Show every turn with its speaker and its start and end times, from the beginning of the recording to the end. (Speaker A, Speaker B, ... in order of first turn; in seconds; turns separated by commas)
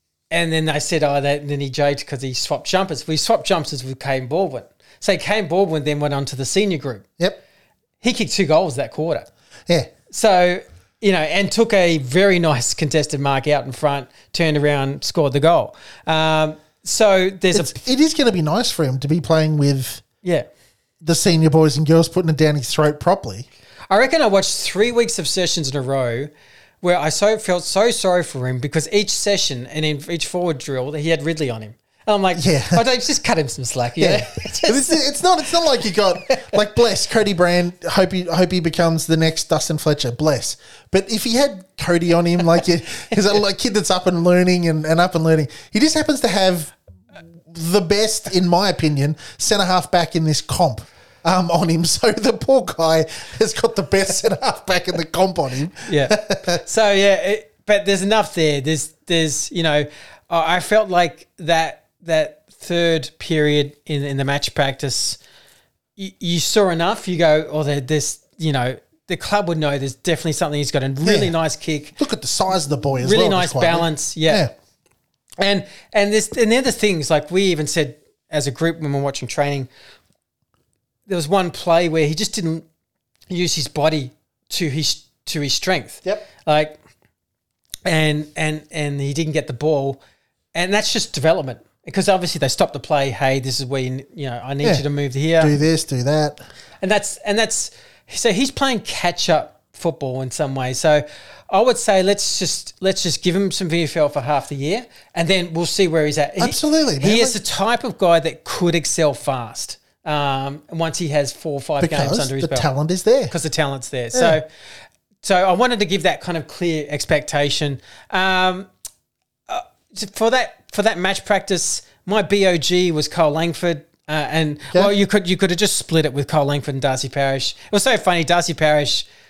Speaker A: 0.3-7.0, Speaker A: 8.0-9.3, Speaker A: 10.1-17.7, Speaker B: 17.5-20.0, Speaker B: 21.0-23.5, Speaker A: 23.9-26.3, Speaker A: 26.8-35.0, Speaker B: 32.4-32.8, Speaker B: 34.0-46.7, Speaker B: 47.4-56.6, Speaker A: 55.9-65.2, Speaker A: 66.0-72.0, Speaker B: 71.0-71.3, Speaker B: 72.0-74.5, Speaker A: 73.0-74.4, Speaker A: 75.4-79.7, Speaker A: 81.1-82.6, Speaker A: 83.3-86.8, Speaker A: 87.8-90.0, Speaker A: 90.5-95.5, Speaker B: 95.4-96.4, Speaker A: 96.8-112.7, Speaker B: 106.4-107.3, Speaker B: 111.8-113.3, Speaker A: 113.3-114.5, Speaker B: 114.1-114.4, Speaker A: 115.2-118.7, Speaker A: 119.5-129.1